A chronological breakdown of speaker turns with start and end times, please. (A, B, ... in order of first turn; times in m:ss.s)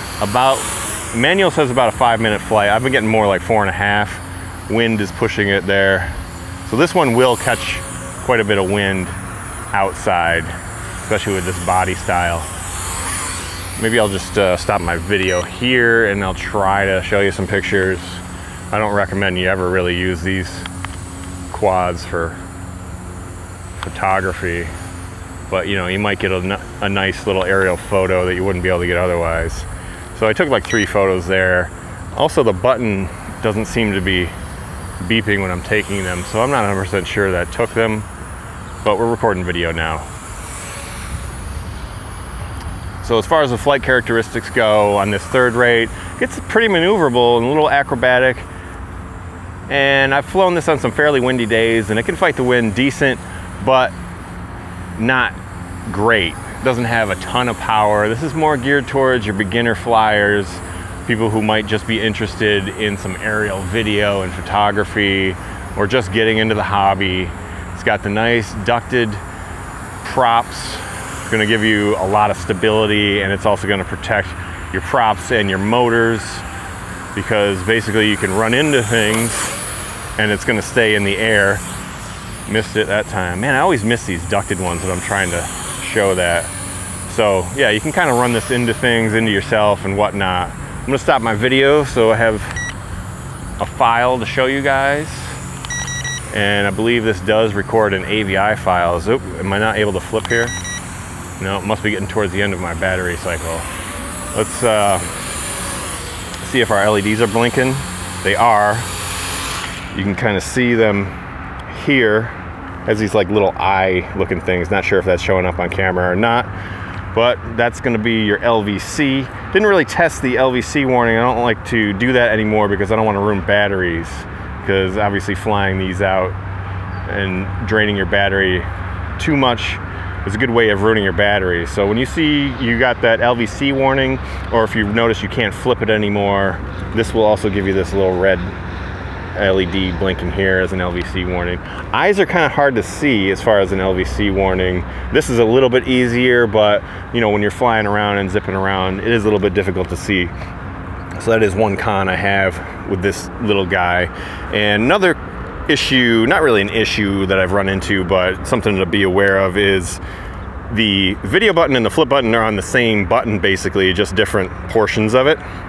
0:00.2-0:09.1 A
0:09.7-0:12.5 A
0:13.8-0:20.7 A
0:21.5-0:22.4 A
0:23.8-0:24.7 A
0:25.5-0:34.3 A
0:35.0-0:38.1 A
0:38.8-0:40.1 A
0:43.0-0:48.5 A
0:49.7-0:53.9 A
0:55.0-1:09.2 A
1:10.0-1:16.4 A
1:17.1-1:19.5 A
1:20.2-1:21.6 A
1:22.4-1:26.5 A
1:27.0-1:32.6 A
1:33.6-1:35.4 A
1:36.3-1:40.5 A
1:41.4-1:43.7 A
1:44.3-1:45.1 A
1:46.4-1:48.9 A
1:49.9-1:51.1 A
1:51.7-1:56.5 A
1:57.1-2:06.3 A
2:07.0-2:18.5 A
2:19.3-2:30.3 A
2:31.2-2:40.0 A
2:40.7-2:45.4 A